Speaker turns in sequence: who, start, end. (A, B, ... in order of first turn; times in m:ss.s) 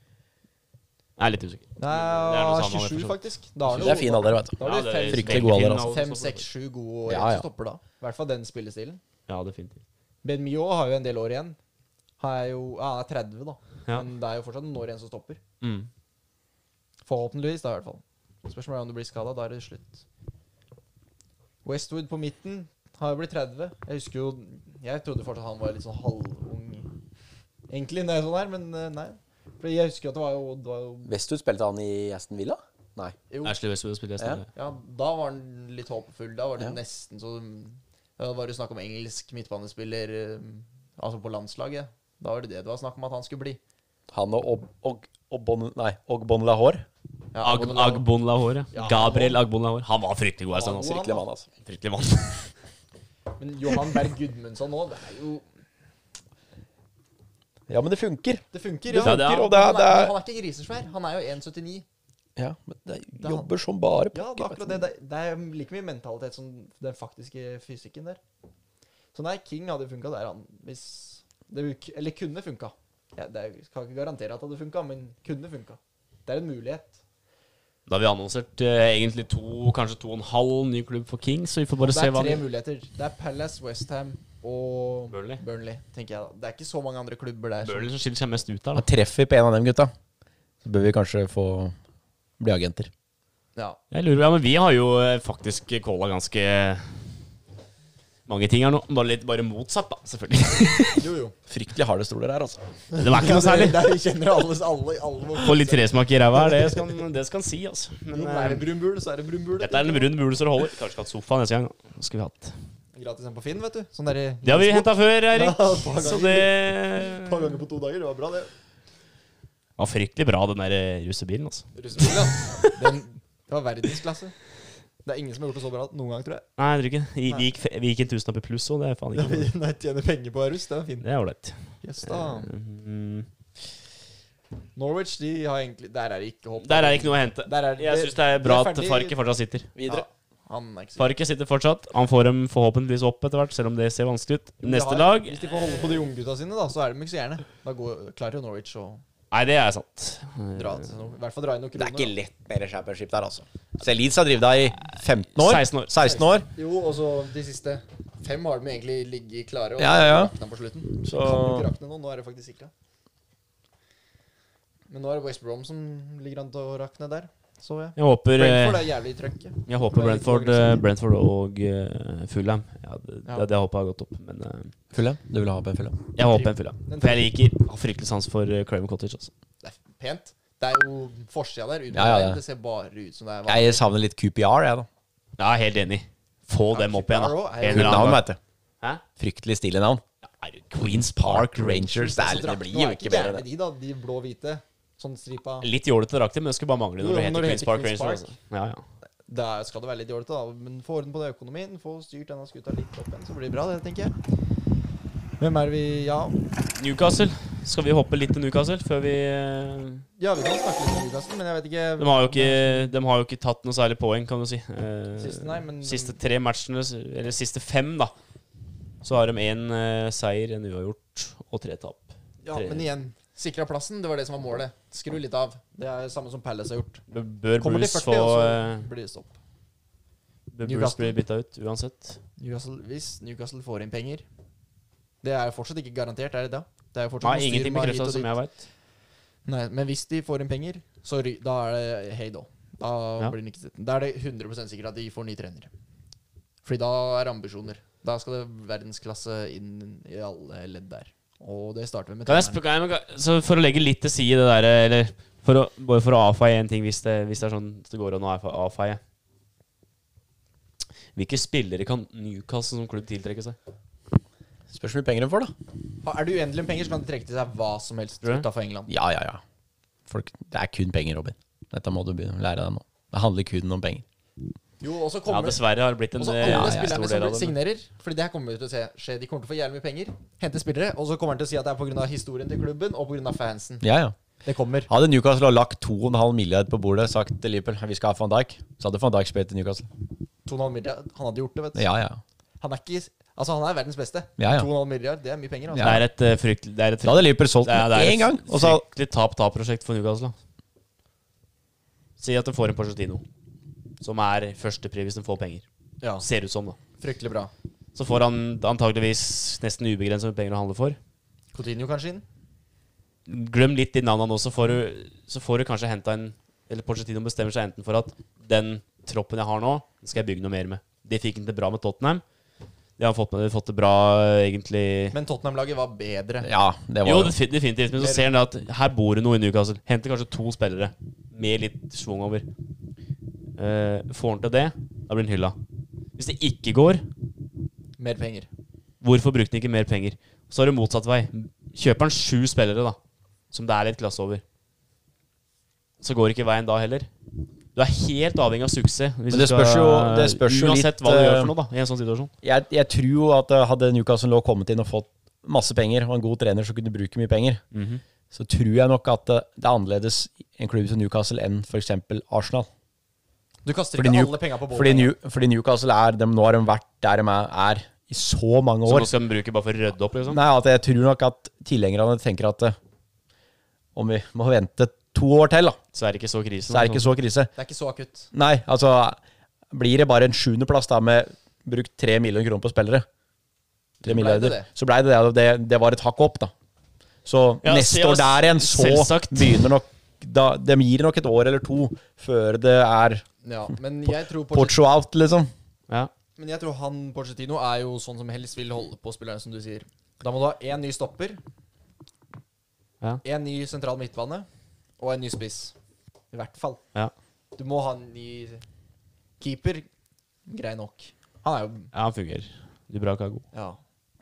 0:01.2-0:04.0 A
0:01.8-0:09.0 B
0:03.7-0:05.9 C
0:04.6-0:06.4 A
0:07.1-0:07.4 C
0:09.3-0:09.8 A
0:10.2-0:11.6 B
0:12.2-0:15.4 B
0:15.6-0:15.9 A
0:17.0-0:20.0 B
0:21.6-0:26.9 B
0:27.7-0:31.1 B
0:31.0-0:33.2 C
0:33.3-0:33.5 B
0:33.4-0:34.5 A
0:34.5-0:43.6 B
0:44.1-0:46.8 C
0:47.3-0:48.0 B
0:47.4-0:51.0 A
0:48.7-0:49.4 B
0:50.5-0:51.2 B
0:50.8-0:51.5 C
0:51.6-0:52.5 A
0:53.4-0:55.4 B
0:57.7-1:00.1 C
0:58.5-1:01.8 B
0:59.0-0:59.5 A
1:02.4-1:04.8 C
1:03.2-1:03.5 B
1:04.1-1:08.2 B
1:09.1-1:17.0 B
1:17.9-1:22.4 A
1:21.8-1:27.9 B
1:25.1-1:25.4 A
1:27.6-1:28.9 A
1:28.7-1:29.9 C
1:30.6-1:31.7 C
1:32.4-1:32.9 C
1:33.9-1:37.0 A
1:38.3-1:41.0 A
1:40.9-1:41.3 B
1:41.5-1:42.6 C
1:42.9-1:46.8 B
1:42.9-1:43.8 A
1:45.4-1:48.6 A
1:48.1-1:50.1 B
1:49.6-1:52.6 A
1:52.9-1:58.5 B
1:54.4-1:57.5 A
1:59.8-2:02.8 A
2:01.7-2:04.3 B
2:05.0-2:06.5 B
2:06.6-2:09.5 A
2:09.1-2:11.1 B
2:11.0-2:13.3 A
2:11.8-2:12.5 B
2:14.8-2:19.2 B
2:16.6-2:19.7 A
2:19.8-2:20.0 C
2:19.8-2:21.1 B
2:21.0-2:25.6 A
2:24.6-2:29.0 B
2:29.3-2:30.9 A
2:30.6-2:32.1 B
2:31.8-2:36.5 C
2:35.4-2:36.0 A
2:36.0-2:42.7 B
2:39.8-2:40.3 C
2:41.0-2:41.7 C
2:44.9-2:50.8 B
2:48.0-2:48.9 A
2:49.6-2:54.7 A
2:54.9-2:56.0 C
2:56.2-2:59.3 A
2:56.2-2:57.3 B
2:59.6-3:03.8 B
3:01.9-3:02.4 C
3:03.5-3:04.9 C
3:05.4-3:08.2 A
3:06.7-3:08.2 B
3:07.7-3:08.4 C
3:09.2-3:10.0 C
3:10.3-3:12.1 A
3:10.8-3:13.4 C
3:12.0-3:15.7 B
3:15.6-3:18.8 A
3:17.0-3:18.3 B
3:19.3-3:24.1 B
3:25.4-3:26.4 B
3:26.7-3:30.0 A
3:30.2-3:32.9 B
3:32.0-3:38.1 A
3:35.2-3:36.2 B
3:39.0-3:42.8 A
3:42.4-3:47.0 B
3:47.1-3:48.8 A
3:47.6-3:49.3 B
3:50.5-3:52.2 A
3:50.6-3:51.2 B
3:52.4-3:54.2 B
3:55.2-3:58.3 B
3:57.2-3:58.6 A
3:59.4-4:05.7 B
4:06.6-4:12.6 B
4:12.2-4:19.0 A
4:21.1-4:23.6 A
4:24.7-4:25.5 C
4:26.0-4:28.9 B
4:28.9-4:29.4 C
4:30.1-4:34.0 C
4:34.8-4:35.6 B
4:35.3-4:37.6 A
4:36.2-4:43.8 B
4:36.4-4:36.9 C
4:43.8-4:44.1 C
4:44.4-4:44.9 B
4:44.9-4:49.8 C
4:50.4-4:51.9 B
4:51.8-4:52.2 C
4:52.6-4:56.0 B
4:54.4-4:54.7 C
4:55.7-4:56.0 C
4:55.8-5:00.4 A
4:57.0-4:58.8 C
5:02.2-5:03.2 A
5:04.0-5:05.6 A
5:06.2-5:06.8 A
5:07.0-5:07.5 B
5:07.9-5:11.0 A
5:11.5-5:12.2 B
5:13.3-5:22.2 A
5:23.0-5:25.2 A
5:25.1-5:26.5 B
5:26.4-5:27.3 C
5:27.0-5:32.5 A
5:27.9-5:28.3 B
5:33.6-5:35.6 A
5:36.2-5:37.0 A
5:38.0-5:38.5 B
5:39.0-5:43.0 A
5:43.5-5:44.4 A
5:46.0-5:47.1 A
5:47.7-5:52.3 A
5:49.3-5:51.5 C
5:52.4-5:57.6 C
5:57.7-5:58.0 A
5:58.3-6:02.7 C
6:03.6-6:05.1 B
6:04.0-6:09.1 C
6:08.8-6:10.4 A
6:10.3-6:12.8 C
6:13.9-6:15.8 C
6:15.9-6:17.0 A
6:16.7-6:17.5 C
6:17.6-6:18.3 B
6:18.3-6:19.2 C
6:19.7-6:23.0 C
6:24.0-6:24.7 B
6:24.0-6:26.5 C
6:27.2-6:33.2 C
6:27.6-6:29.7 A
6:33.4-6:34.8 B
6:34.1-6:35.5 C
6:36.4-6:41.4 B
6:43.2-6:44.5 B
6:45.0-6:45.7 B
6:46.3-6:46.8 B
6:47.6-6:48.6 B
6:49.4-6:49.8 B
6:50.5-6:51.9 B
6:51.9-6:53.4 A
6:53.5-6:53.8 B